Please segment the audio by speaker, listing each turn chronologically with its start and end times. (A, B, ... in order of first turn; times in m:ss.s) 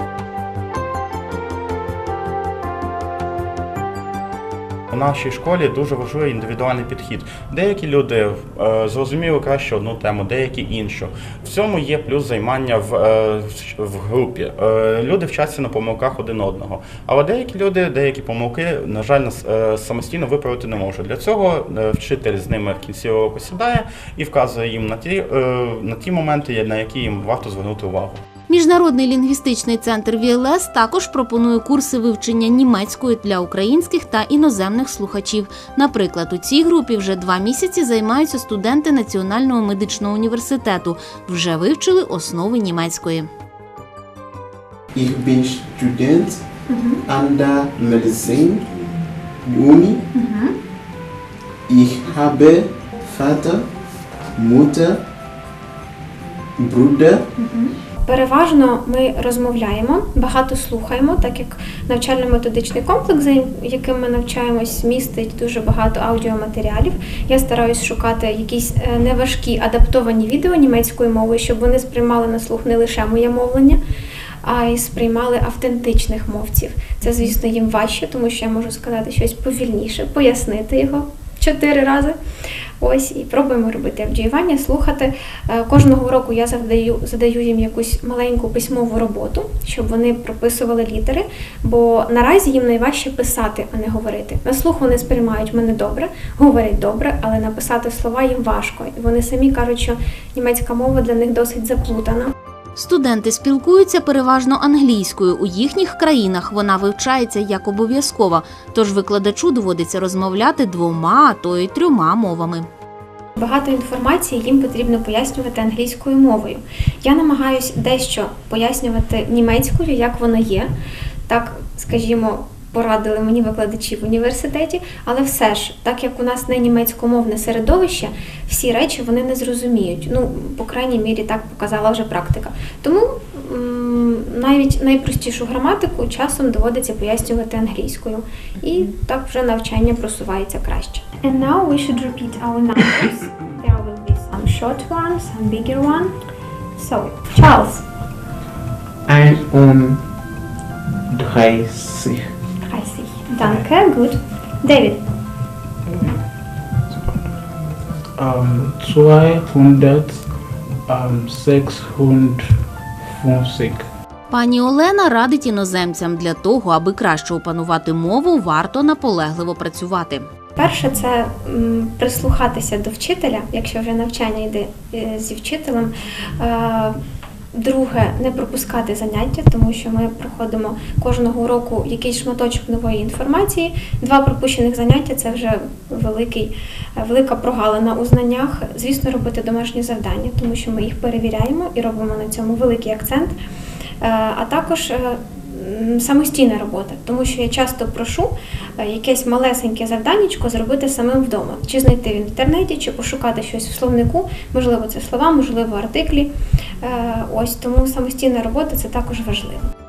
0:04.9-0:28.2 A
0:28.5-0:43.3 B
0:44.9-0:46.4 C
0:46.7-0:47.0 D
0:47.0-0:48.8 C
0:49.4-0:50.0 C
0:50.1-0:50.5 D
0:51.7-0:53.6 C
0:54.4-0:55.0 C
0:56.6-0:57.3 C
0:57.4-1:13.8 D
1:14.4-1:22.2 D
1:22.8-1:42.3 D
1:42.8-1:52.7 B
1:53.4-2:00.7 D
2:01.3-2:26.1 D
2:26.8-2:27.8 D
2:29.1-2:30.0 C
2:31.1-2:32.3 C
2:32.6-2:35.0 D
2:38.2-2:40.2 E
2:40.9-2:42.5 E
2:43.2-2:43.9 E
2:44.3-2:50.2 B
2:50.6-2:57.0 D
2:57.5-3:13.4 D
3:14.0-3:29.6 D